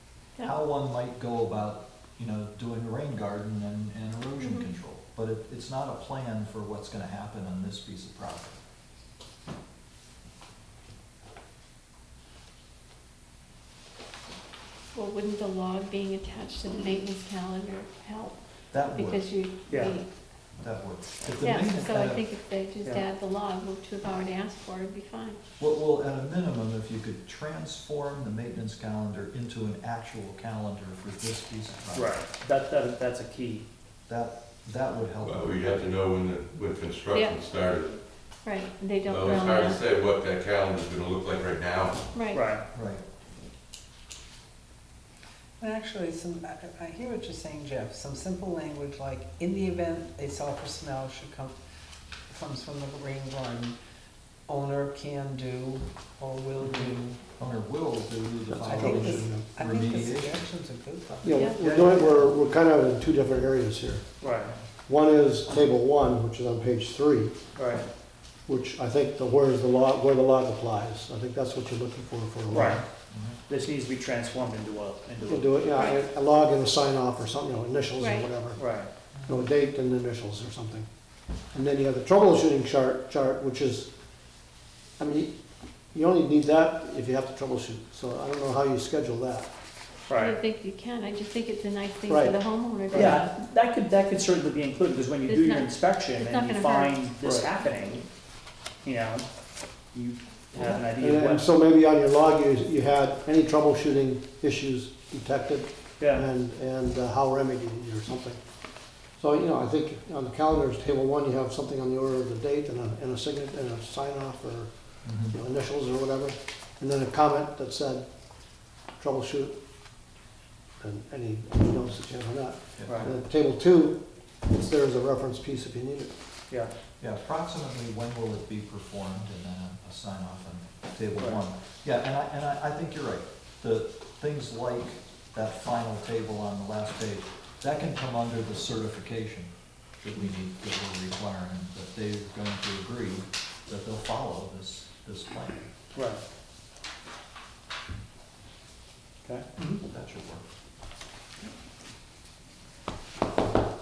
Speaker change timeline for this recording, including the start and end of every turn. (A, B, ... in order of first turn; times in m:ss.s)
0:00.4-0:08.6 A
0:04.4-0:04.7 B
0:14.9-0:20.1 B
0:18.7-0:19.3 A
0:19.7-0:20.0 C
0:20.6-0:22.2 A
0:21.3-0:25.4 B
0:25.6-0:32.2 A
0:31.9-0:33.6 C
0:34.1-0:36.0 A
0:35.2-0:38.0 D
0:37.1-0:37.4 B
0:38.4-0:39.8 B
0:39.0-0:42.0 D
0:42.1-0:42.5 B
0:42.3-0:42.6 C
0:42.7-0:43.0 A
0:45.6-0:51.5 E
0:52.3-0:53.8 E
0:54.5-0:57.2 E
0:56.6-1:00.4 A
0:58.5-0:59.4 F
0:58.5-1:02.2 E
1:01.2-1:04.0 F
1:01.3-1:01.6 B
1:01.5-1:02.2 A
1:04.2-1:04.5 C
1:04.9-1:07.3 F
1:07.6-1:07.8 C
1:08.5-1:12.8 F
1:12.5-1:12.8 C
1:12.5-1:13.4 A
1:13.5-1:15.6 C
1:15.2-1:18.6 F
1:15.8-1:16.0 B
1:18.0-1:18.3 B
1:18.6-1:18.9 C
1:19.2-1:19.4 A
1:19.3-1:20.9 F
1:21.5-1:23.9 F
1:25.0-1:25.3 F
1:25.9-1:29.5 F
1:30.1-1:30.4 C
1:30.1-1:33.3 B
1:32.1-1:32.4 F
1:32.9-1:33.2 F
1:32.9-1:38.0 C
1:35.3-1:38.0 B
1:38.8-1:39.3 C
1:39.9-1:41.4 C
1:40.5-1:48.4 F
1:46.0-1:46.3 C
1:49.2-1:54.7 F
1:55.0-1:55.4 A
1:55.2-1:58.0 F
1:59.0-1:59.6 F
2:00.8-2:06.1 F
2:02.8-2:03.1 A
2:02.8-2:03.1 C
2:07.0-2:25.7 A
2:11.2-2:11.4 C
2:25.9-2:26.2 C
2:29.8-2:30.4 A